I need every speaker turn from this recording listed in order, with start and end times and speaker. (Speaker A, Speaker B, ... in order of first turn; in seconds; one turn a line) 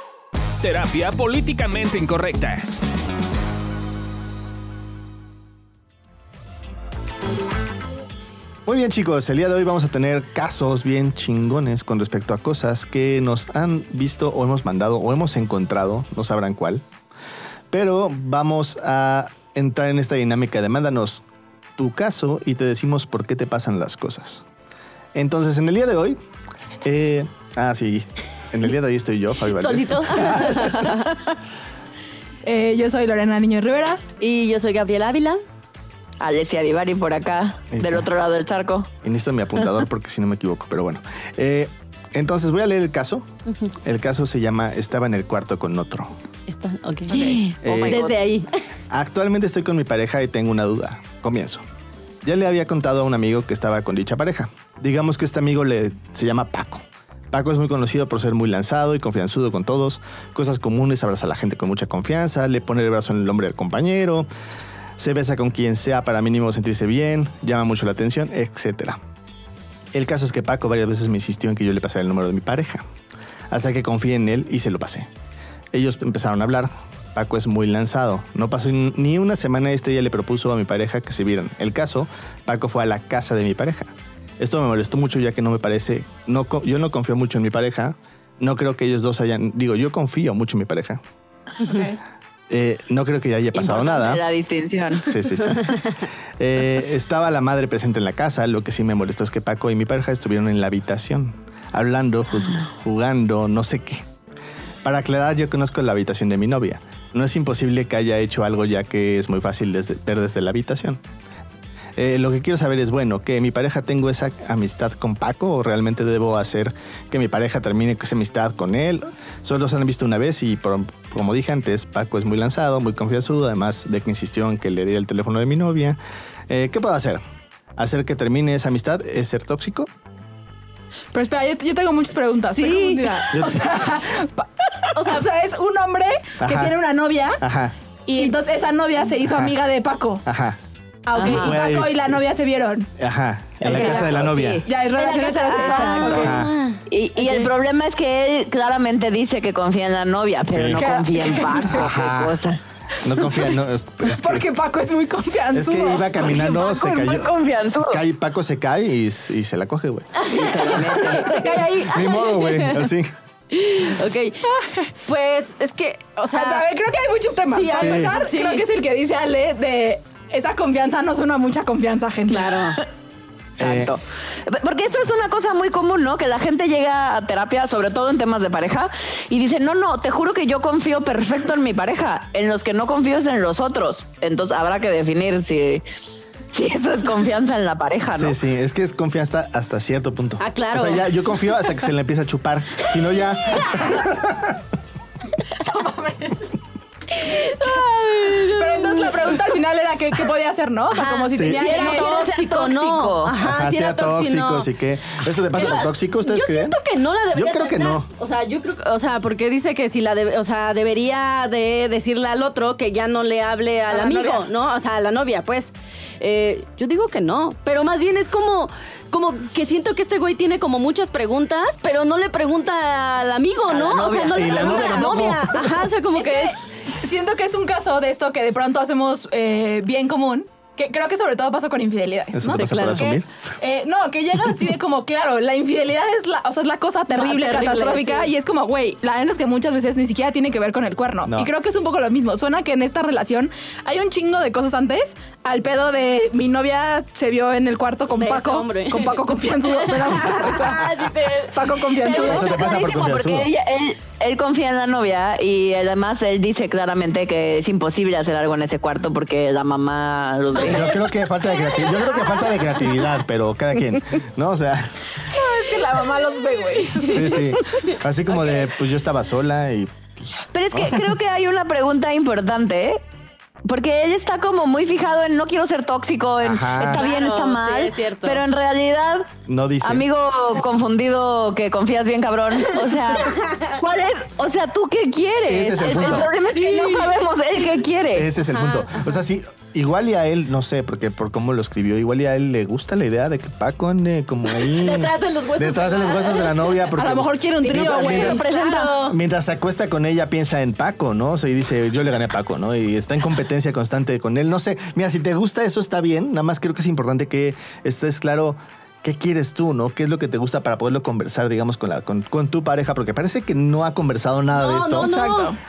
Speaker A: 0.6-2.7
Speaker B: 8.7-16.8
Speaker B: 17.7-21.2
Speaker B: 21.8-24.4
Speaker B: 25.1-26.2
Speaker B: 26.8-30.7
Speaker C: 29.6-31.1
Speaker D: 32.4-34.0
Speaker C: 34.2-35.4
Speaker E: 36.2-38.9
Speaker B: 37.7-38.1
Speaker B: 39.0-46.1
Speaker C: 46.5-48.5
Speaker E: 47.1-48.2
Speaker B: 47.6-48.0
Speaker B: 48.9-51.6
Speaker B: 52.2-64.3
Speaker B: 65.0-69.0
Speaker B: 69.9-72.8
Speaker B: 73.5-75.1
Speaker B: 75.7-91.0
Speaker D: 91.6-92.0
Speaker B: 92.5-94.2
Speaker E: 93.5-95.1
Speaker B: 95.1-95.8
Speaker C: 95.6-95.9
Speaker B: 96.4-104.0
Speaker B: 104.8-111.0
Speaker B: 112.0-127.2
Speaker B: 127.8-129.9
Speaker D: 131.1-137.4
Speaker C: 132.5-133.3
Speaker B: 133.3-133.6
Speaker C: 134.9-135.2
Speaker B: 136.4-136.8
Speaker B: 137.4-137.8
Speaker D: 138.1-140.2
Speaker B: 139.3-139.5
Speaker B: 140.2-140.6
Speaker D: 141.1-142.9
Speaker E: 141.2-141.4
Speaker C: 141.2-141.6
Speaker B: 141.2-142.2
Speaker B: 143.0-144.6
Speaker E: 143.6-144.7
Speaker C: 143.8-144.1
Speaker D: 144.7-146.4
Speaker C: 144.7-147.5
Speaker E: 145.6-152.7
Speaker B: 146.2-146.5
Speaker B: 150.5-150.8
Speaker D: 150.8-151.9
Speaker B: 151.7-152.4
Speaker B: 153.0-154.5
Speaker D: 154.0-156.8
Speaker B: 155.5-160.2
Speaker E: 156.4-158.0
Speaker C: 160.2-162.9
Speaker E: 160.3-161.5
Speaker B: 160.9-163.1
Speaker C: 163.5-164.4
Speaker D: 164.4-164.9
Speaker C: 165.1-166.7
Speaker D: 166.3-172.5
Speaker C: 167.5-168.7
Speaker B: 167.8-168.2
Speaker C: 172.3-172.8
Speaker B: 173.6-173.9
Speaker E: 173.6-185.8
Speaker E: 186.5-188.3
Speaker B: 188.1-194.6
Speaker C: 190.4-191.1
Speaker C: 193.2-194.0
Speaker D: 195.6-196.6
Speaker C: 197.1-199.5
Speaker D: 198.4-202.3
Speaker C: 200.9-226.6
Speaker B: 201.3-201.6
Speaker E: 201.6-203.3
Speaker B: 203.4-206.8
Speaker B: 207.3-208.1
Speaker D: 213.9-214.5
Speaker E: 223.7-225.3
Speaker B: 224.2-225.6
Speaker D: 226.2-232.7
Speaker B: 232.3-233.3
Speaker C: 232.5-233.2
Speaker D: 233.6-252.7
Speaker C: 237.1-238.3
Speaker B: 241.2-241.5
Speaker C: 248.1-252.3
Speaker E: 252.0-261.0
Speaker B: 252.2-253.5
Speaker B: 260.6-265.0
Speaker D: 265.3-267.5
Speaker C: 266.7-267.5
Speaker B: 267.1-271.1
Speaker E: 270.5-273.0
Speaker E: 273.6-279.3
Speaker B: 276.4-277.0
Speaker C: 276.8-278.4
Speaker B: 279.5-280.1
Speaker E: 279.8-288.3
Speaker C: 283.1-283.6
Speaker B: 285.5-286.3
Speaker C: 286.0-287.2
Speaker B: 288.1-298.4
Speaker C: 288.4-289.2
Speaker C: 294.5-297.0
Speaker D: 297.0-298.9
Speaker C: 297.6-299.2
Speaker E: 298.3-298.8
Speaker B: 299.1-315.1
Speaker C: 314.5-315.6
Speaker D: 315.0-315.6